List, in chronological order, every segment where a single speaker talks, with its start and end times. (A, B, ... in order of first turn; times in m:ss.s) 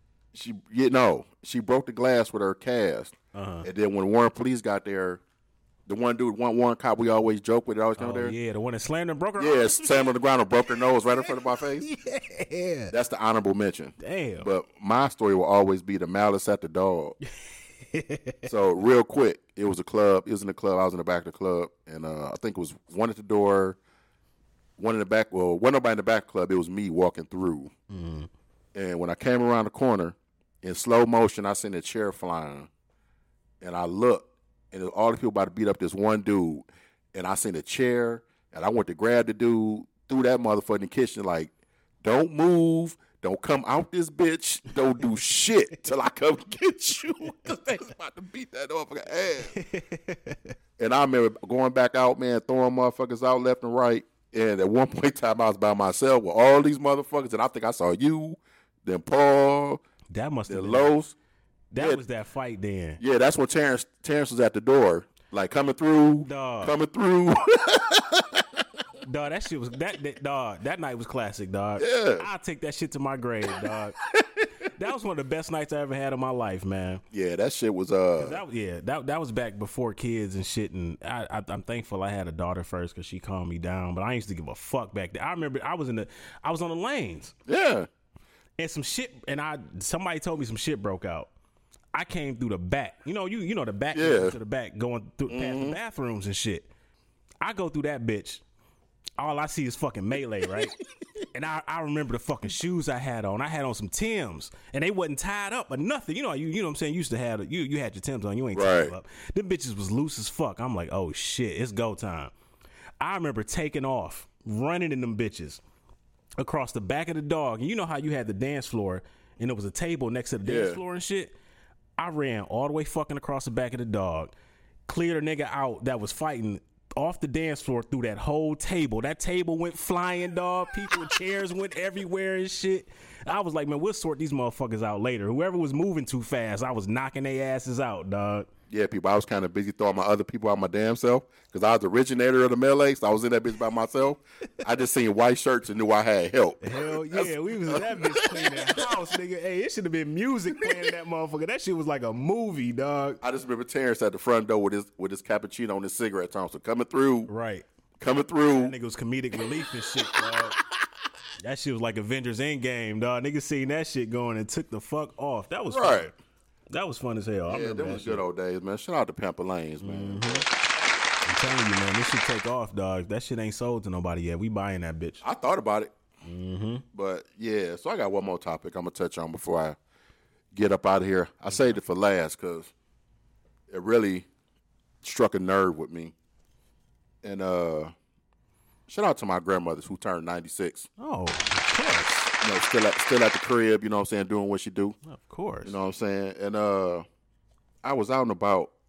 0:00.3-0:05.2 A
0:03.3-0:03.7 B
0:05.9-0:08.4 A
0:08.0-0:10.1 B
0:09.4-0:11.9 A
0:11.2-0:12.9 B
0:12.9-0:17.2 A
0:14.0-0:14.5 B
0:17.9-0:18.5 B
0:18.5-0:23.8 A
0:24.8-0:27.7 A
0:27.9-0:28.3 B
0:28.8-0:32.7 A
0:33.6-0:41.5 A
0:42.0-0:49.5 A
0:49.6-0:50.4 B
0:50.8-0:59.8 A
1:00.1-1:00.9 B
1:00.5-1:01.1 A
1:01.7-1:03.0 B
1:01.8-1:02.0 A
1:03.0-1:08.8 A
1:06.2-1:06.8 B
1:09.0-1:14.0 B
1:11.8-1:12.3 A
1:14.1-1:14.5 A
1:14.6-1:17.0 B
1:17.1-1:18.4 A
1:18.2-1:27.4 B
1:27.5-1:27.9 A
1:28.6-1:31.3 B
1:31.9-1:36.7 B
1:33.9-1:34.4 A
1:35.3-1:35.8 A
1:37.4-1:38.4 B
1:39.2-1:40.8 B
1:41.3-1:52.3 B
1:48.5-1:48.9 A
1:53.0-1:55.6 B
1:56.4-2:01.3 B
2:00.4-2:00.8 A
2:02.0-2:04.3 B
2:04.9-2:18.5 B
2:18.7-2:29.0 A
2:26.6-2:33.2 B
2:33.2-2:37.3 A
2:37.3-2:37.7 B
2:38.0-2:38.8 A
2:38.5-2:40.6 B
2:39.6-2:40.6 A
2:41.4-2:46.1 B
2:45.7-2:46.1 A
2:46.7-2:48.2 B
2:47.5-2:50.5 A
2:49.8-2:50.4 B
2:51.2-2:55.2 B
2:55.2-2:55.9 A
2:56.2-2:56.8 B
2:56.9-2:59.8 A
3:00.5-3:02.7 A
3:03.7-3:04.3 A
3:05.0-3:06.1 A
3:07.2-3:07.9 A
3:08.9-3:10.9 A
3:11.0-3:12.3 B
3:12.4-3:15.0 A
3:15.1-3:15.8 B
3:15.6-3:17.0 A
3:17.8-3:18.7 A